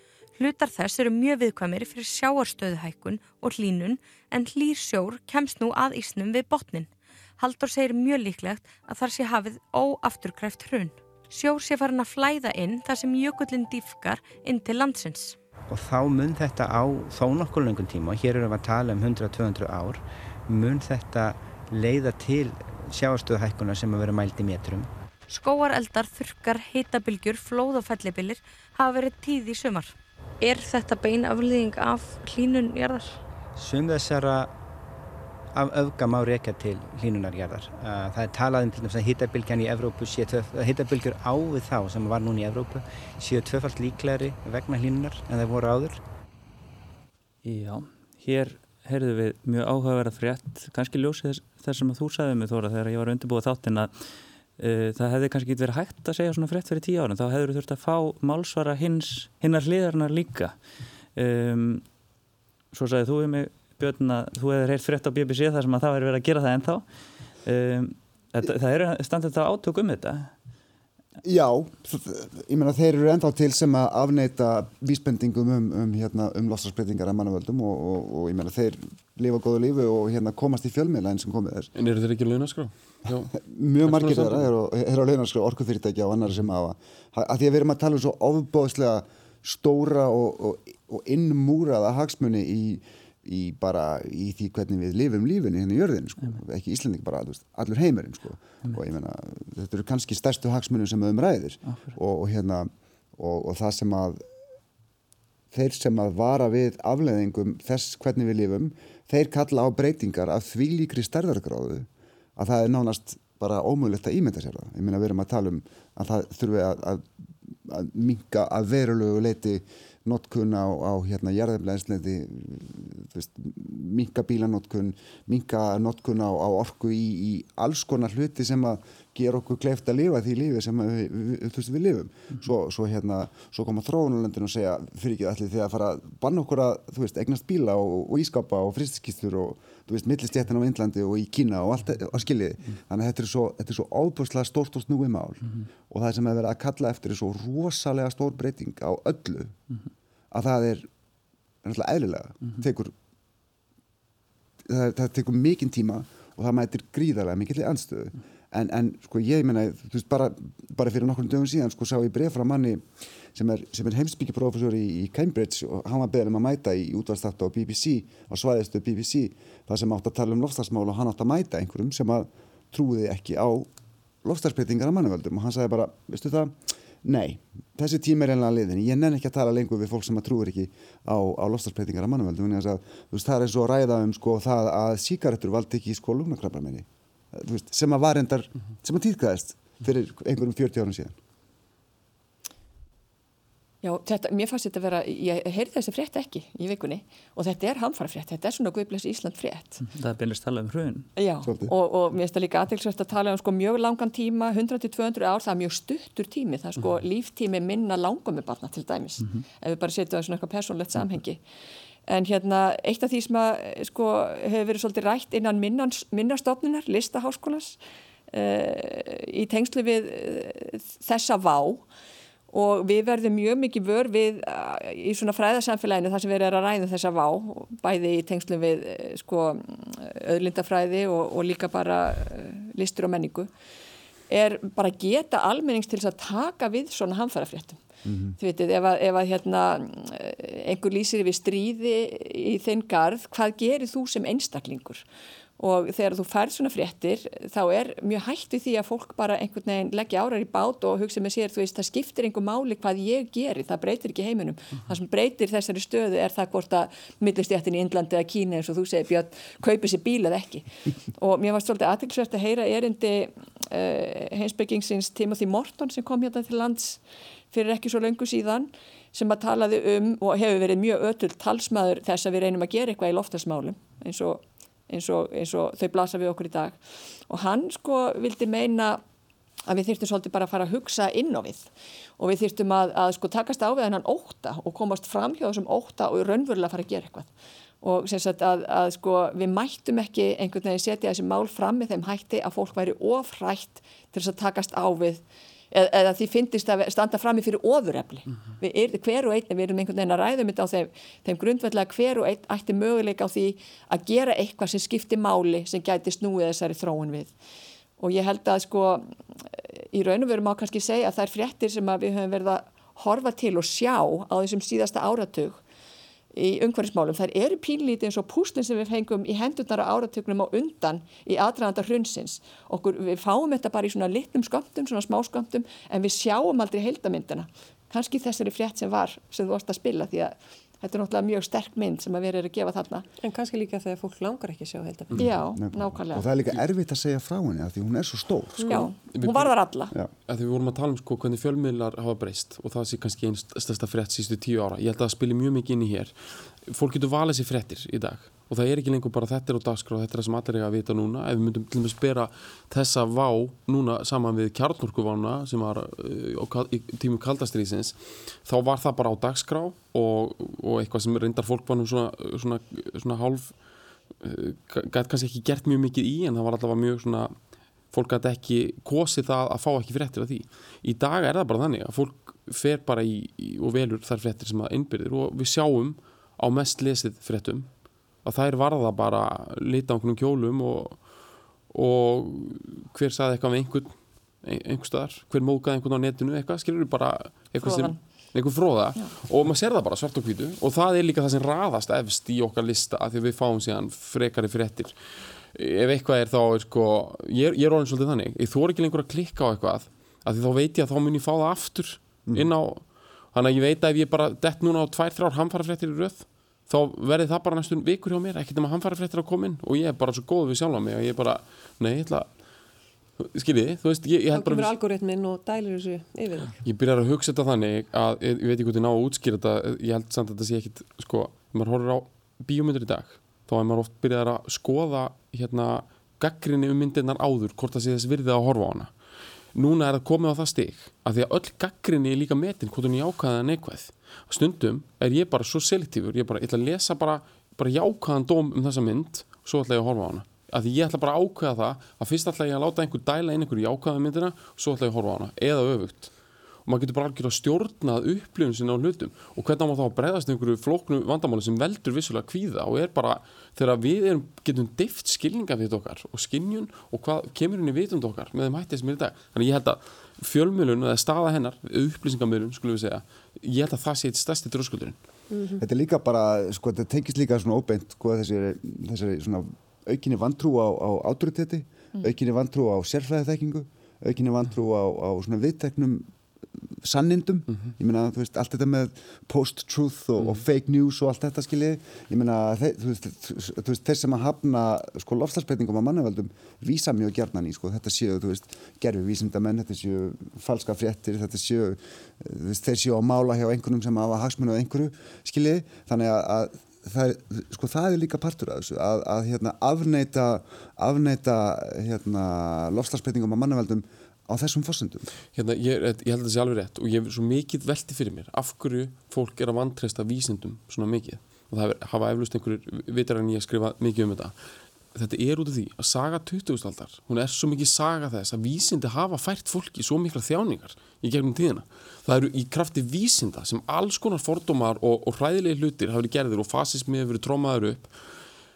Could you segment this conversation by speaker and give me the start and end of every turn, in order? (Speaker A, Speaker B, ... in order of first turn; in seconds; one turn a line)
Speaker A: 0.4-15.4
Speaker B: 15.7-24.9
Speaker A: 25.3-33.2
Speaker B: 33.6-34.5
Speaker B: 35.5-46.0
Speaker C: 47.4-53.9
Speaker C: 54.6-60.5
Speaker C: 61.2-61.9
Speaker C: 62.7-66.8
Speaker C: 67.5-70.3
Speaker D: 71.2-81.7
Speaker E: 81.8-83.3
Speaker D: 83.1-104.2
Speaker E: 83.8-84.5
Speaker D: 105.5-149.6
Speaker D: 150.3-150.9
Speaker D: 151.6-152.9
Speaker D: 154.7-162.8
Speaker D: 163.3-173.7
Speaker D: 174.2-191.2
Speaker F: 193.8-199.8
Speaker C: 199.8-201.1
Speaker F: 201.2-211.4
Speaker D: 201.5-201.7
Speaker F: 212.1-217.8
Speaker F: 218.3-221.8
Speaker F: 222.5-233.5
Speaker F: 234.3-237.8
Speaker D: 238.1-238.4
Speaker F: 238.4-245.0
Speaker F: 245.6-267.0
Speaker F: 267.5-279.0
Speaker F: 279.7-287.3
Speaker F: 287.8-307.3
Speaker F: 308.0-315.6
Speaker F: 316.3-333.1
Speaker G: 333.2-335.3
Speaker F: 335.2-336.3
Speaker D: 335.6-338.9
Speaker G: 338.6-338.9
Speaker F: 338.7-339.9
Speaker E: 339.1-339.5
Speaker E: 340.3-363.6
Speaker E: 364.2-367.4
Speaker E: 367.9-377.7
Speaker E: 378.2-381.1
Speaker E: 381.7-395.0
Speaker F: 387.6-388.0
Speaker E: 395.5-412.4
Speaker E: 413.2-414.7
Speaker G: 414.3-416.6
Speaker E: 416.6-428.9
Speaker E: 429.5-446.1
Speaker E: 446.6-465.0
Speaker G: 465.3-465.6
Speaker D: 465.6-505.1
Speaker E: 505.4-514.4
Speaker E: 514.9-527.9